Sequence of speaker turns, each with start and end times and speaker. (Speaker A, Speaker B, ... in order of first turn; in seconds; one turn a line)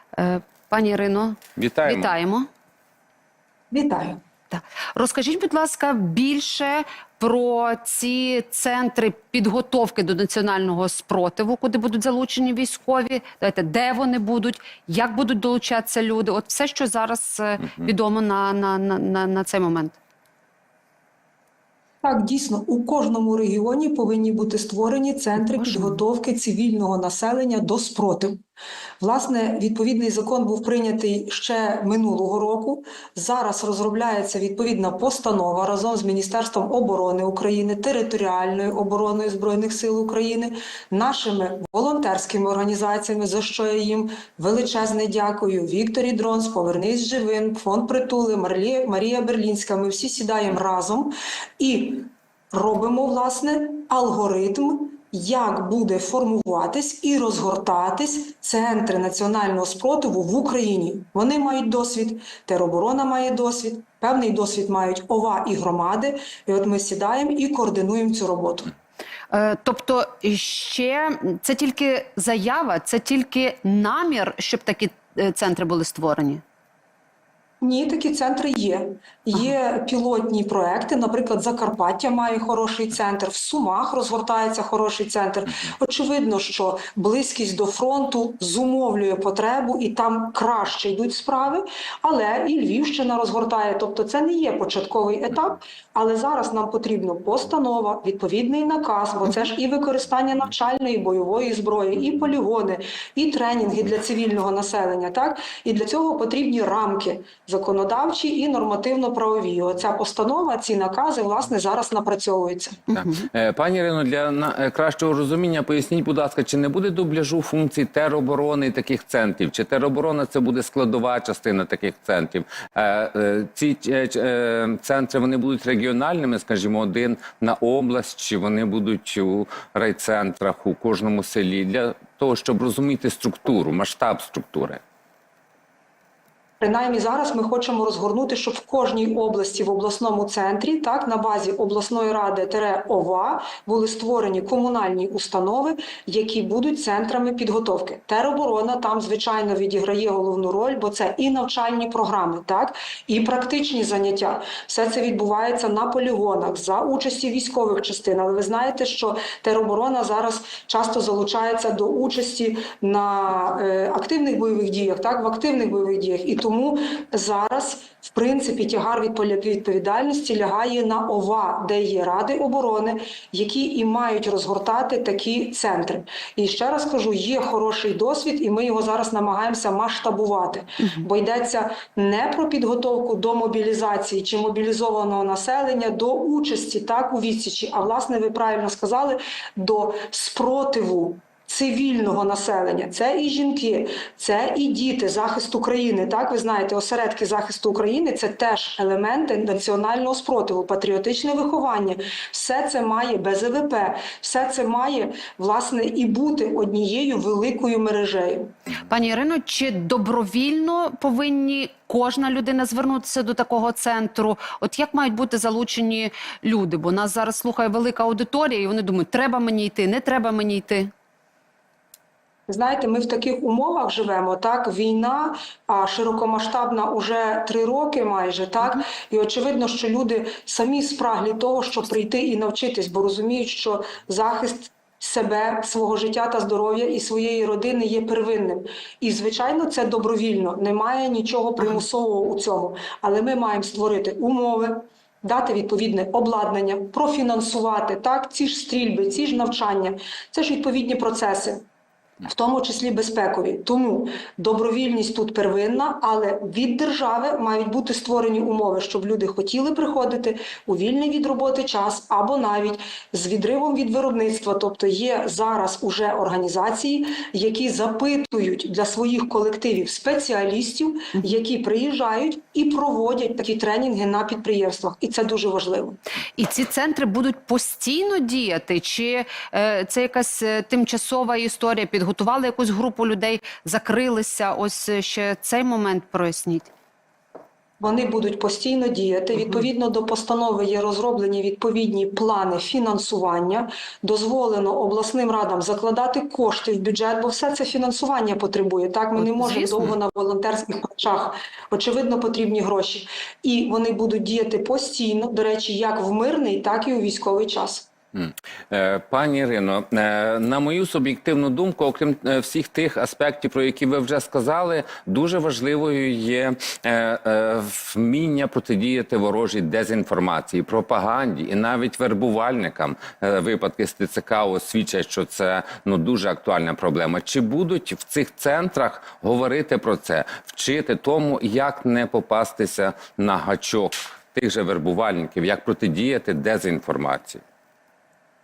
Speaker A: 0.1-2.5
Speaker B: 1.6-2.1
Speaker C: 3.7-4.2
Speaker A: 4.5-20.0
Speaker C: 22.0-28.4
Speaker A: 25.4-26.0
Speaker C: 29.0-68.7
Speaker A: 69.3-76.4
Speaker C: 77.6-112.8
Speaker A: 112.9-113.3
Speaker B: 112.9-134.8
Speaker C: 136.6-208.5
Speaker A: 208.9-220.9
Speaker C: 222.5-251.7
Speaker C: 252.2-276.0
Speaker A: 276.4-286.7
Speaker C: 287.8-307.9
Speaker A: 299.2-299.9
Speaker B: 308.1-337.4